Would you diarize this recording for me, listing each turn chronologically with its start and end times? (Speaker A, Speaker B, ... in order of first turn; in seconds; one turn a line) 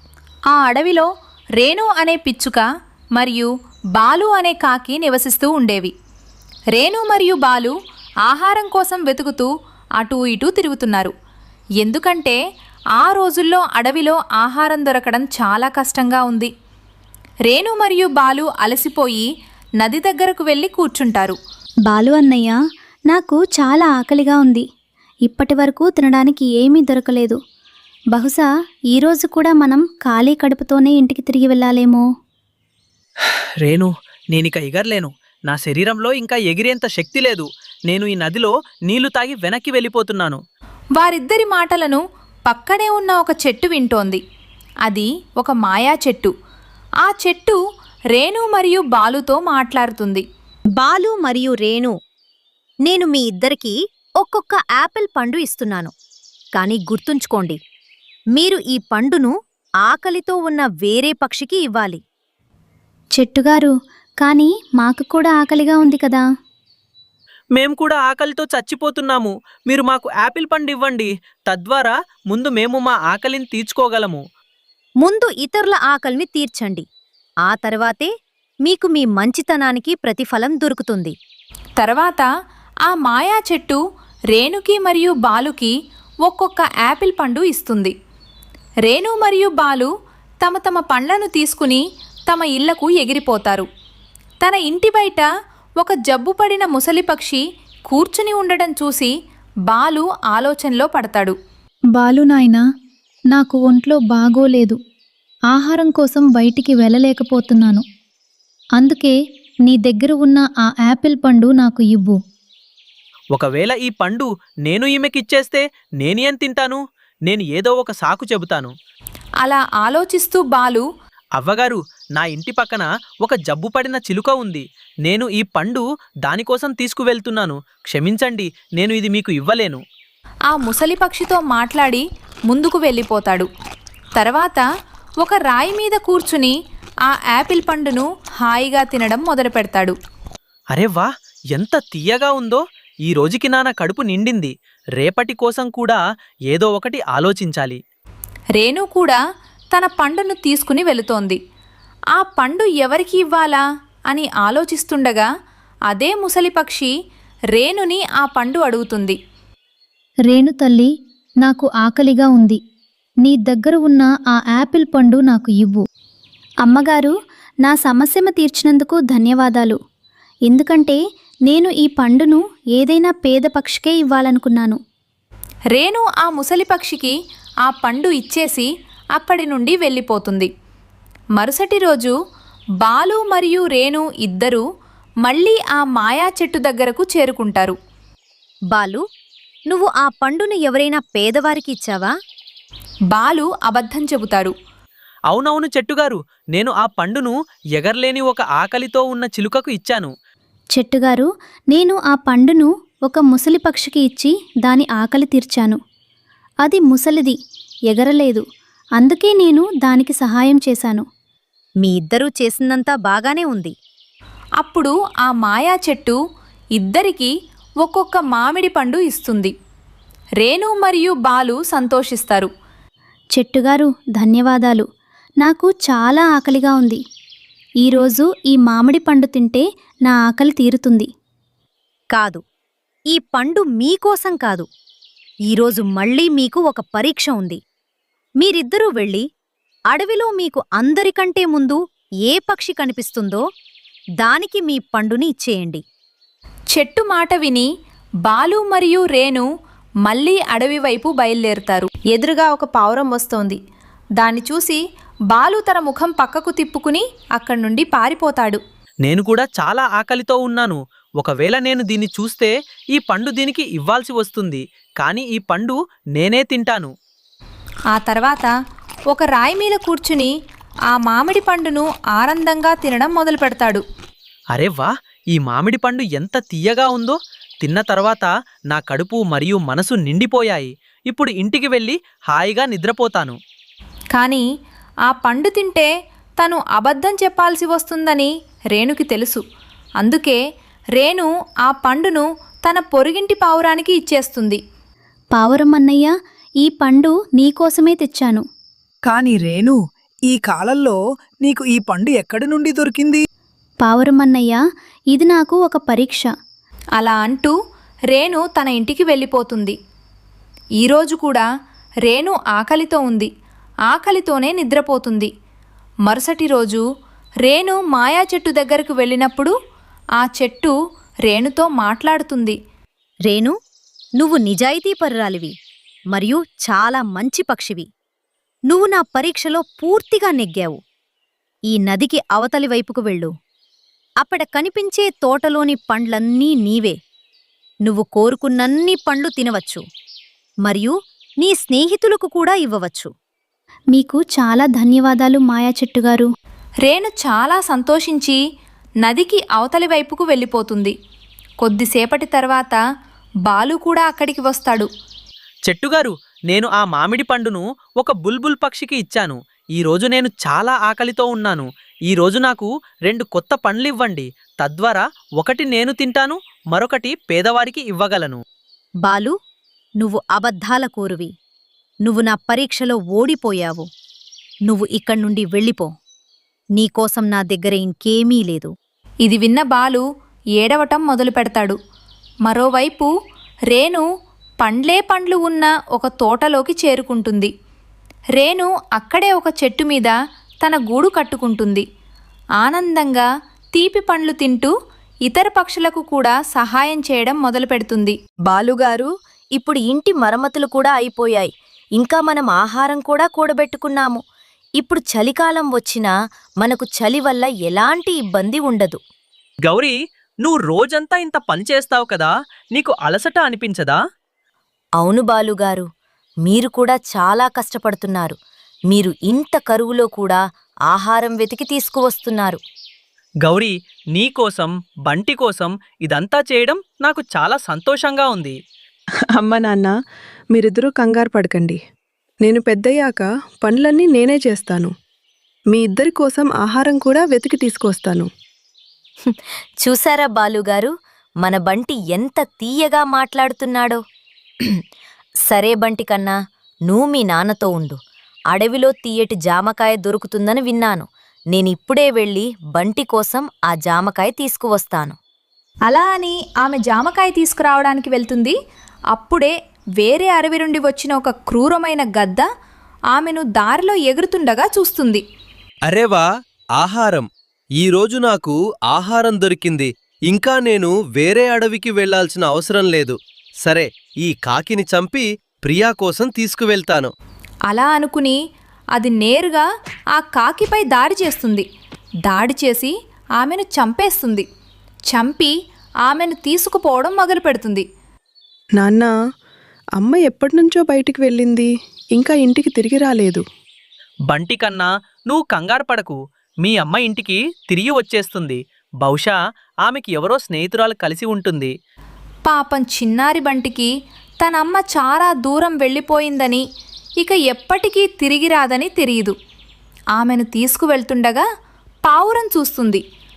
Speaker A: 0.5-2.6
Speaker A: 3.1-5.9
Speaker A: 6.7-7.7
Speaker A: 8.2-11.1
Speaker A: 11.8-12.4
Speaker A: 13.0-16.5
Speaker A: 17.5-19.2
Speaker A: 19.8-21.4
Speaker B: 21.9-22.6
Speaker B: 23.1-24.6
Speaker B: 25.2-27.4
Speaker B: 28.1-32.0
Speaker C: 33.6-40.4
Speaker A: 41.0-44.2
Speaker A: 44.9-46.3
Speaker A: 47.0-47.6
Speaker A: 48.1-50.2
Speaker D: 50.8-51.9
Speaker D: 52.8-55.9
Speaker D: 56.5-57.6
Speaker D: 58.3-62.0
Speaker B: 63.1-66.2
Speaker C: 67.5-74.2
Speaker D: 75.0-76.8
Speaker D: 77.4-78.1
Speaker D: 78.6-81.1
Speaker A: 81.8-82.3
Speaker A: 82.8-83.8
Speaker A: 84.3-85.7
Speaker A: 86.2-87.9
Speaker A: 88.8-89.9
Speaker A: 90.4-93.7
Speaker A: 94.4-95.3
Speaker A: 95.8-99.1
Speaker A: 99.7-101.3
Speaker B: 101.9-102.6
Speaker B: 103.3-104.8
Speaker B: 105.5-107.8
Speaker B: 108.8-109.1
Speaker B: 109.7-112.2
Speaker C: 113.3-118.7
Speaker A: 119.4-120.8
Speaker C: 121.4-129.8
Speaker A: 130.5-133.5
Speaker A: 134.2-134.6
Speaker A: 135.2-136.5
Speaker A: 137.1-139.9
Speaker C: 140.7-146.0
Speaker C: 146.5-147.8
Speaker A: 148.6-149.2
Speaker A: 149.7-151.4
Speaker A: 152.1-155.3
Speaker A: 155.9-156.9
Speaker A: 157.5-159.2
Speaker B: 160.3-160.9
Speaker B: 161.4-162.6
Speaker B: 163.2-165.8
Speaker B: 166.6-169.8
Speaker B: 170.5-174.8
Speaker A: 175.7-177.1
Speaker A: 177.6-180.5
Speaker A: 181.3-182.1
Speaker A: 182.8-184.6
Speaker A: 185.2-187.7
Speaker D: 188.7-189.0
Speaker D: 189.7-192.1
Speaker A: 193.1-194.5
Speaker C: 195.3-200.1
Speaker B: 200.7-205.8
Speaker B: 206.6-207.4
Speaker B: 207.9-208.4
Speaker B: 209.0-211.1
Speaker D: 211.8-213.7
Speaker A: 214.6-216.2
Speaker A: 216.8-219.5
Speaker A: 220.4-222.5
Speaker B: 223.3-224.9
Speaker B: 225.4-227.0
Speaker B: 227.8-231.1
Speaker D: 232.1-232.4
Speaker D: 233.1-234.7
Speaker D: 235.5-237.6
Speaker D: 238.4-239.2
Speaker D: 239.9-243.4
Speaker D: 244.2-245.8
Speaker A: 246.7-247.7
Speaker A: 248.2-249.4
Speaker A: 250.0-253.6
Speaker A: 254.2-254.8
Speaker A: 255.3-258.6
Speaker C: 259.0-266.9
Speaker A: 267.9-268.5
Speaker A: 269.1-270.3
Speaker A: 270.9-273.8
Speaker C: 274.5-283.4
Speaker A: 284.1-284.4
Speaker A: 285.1-289.4
Speaker A: 290.0-290.4
Speaker A: 290.9-294.6
Speaker B: 295.3-298.4
Speaker E: 299.1-303.2
Speaker B: 303.8-304.6
Speaker B: 305.1-306.3
Speaker A: 307.0-307.5
Speaker A: 308.1-309.8
Speaker A: 310.8-311.5
Speaker A: 312.1-313.3
Speaker A: 313.9-315.3
Speaker A: 316.1-316.8
Speaker A: 317.4-319.5
Speaker A: 320.2-320.7
Speaker A: 321.2-322.6
Speaker D: 323.2-323.5
Speaker D: 324.2-325.5
Speaker D: 326.1-327.9
Speaker D: 328.7-330.8
Speaker D: 331.7-333.3
Speaker D: 334.2-336.9
Speaker D: 337.8-339.8
Speaker D: 340.6-343.1
Speaker B: 343.9-346.3
Speaker A: 346.8-348.4
Speaker A: 349.0-350.9
Speaker A: 351.6-352.8
Speaker A: 353.4-354.9
Speaker C: 355.7-368.4
Speaker D: 369.0-369.3
Speaker D: 370.0-371.3
Speaker D: 372.0-373.9
Speaker D: 374.7-375.9
Speaker D: 376.8-378.7
Speaker A: 379.2-380.0
Speaker A: 380.6-381.8
Speaker A: 382.4-383.1
Speaker A: 383.7-384.0
Speaker A: 384.6-387.5
Speaker A: 388.4-391.8
Speaker A: 392.6-394.7
Speaker A: 395.3-398.2
Speaker F: 398.4-404.2
Speaker F: 404.8-406.1
Speaker F: 406.6-409.0
Speaker C: 409.6-414.0
Speaker F: 415.0-415.9
Speaker F: 416.4-418.4
Speaker F: 418.9-422.6
Speaker C: 423.4-428.6
Speaker G: 429.3-429.9
Speaker G: 430.5-431.8
Speaker G: 432.4-434.9
Speaker G: 435.7-438.3
Speaker F: 439.2-444.0
Speaker F: 445.4-446.4
Speaker F: 446.9-448.0
Speaker F: 448.5-455.1
Speaker A: 455.9-458.5
Speaker A: 459.1-462.4
Speaker A: 463.1-465.2
Speaker H: 465.9-466.2
Speaker H: 466.8-467.3
Speaker H: 467.8-477.1
Speaker A: 477.7-478.4
Speaker A: 478.9-481.6
Speaker A: 482.2-484.4
Speaker A: 485.1-485.5
Speaker A: 486.0-487.8
Speaker G: 488.8-489.1
Speaker G: 490.0-493.4
Speaker C: 494.3-501.7
Speaker A: 502.4-503.9
Speaker A: 504.4-506.6
Speaker A: 507.2-509.3
Speaker A: 510.1-511.4
Speaker A: 512.0-513.0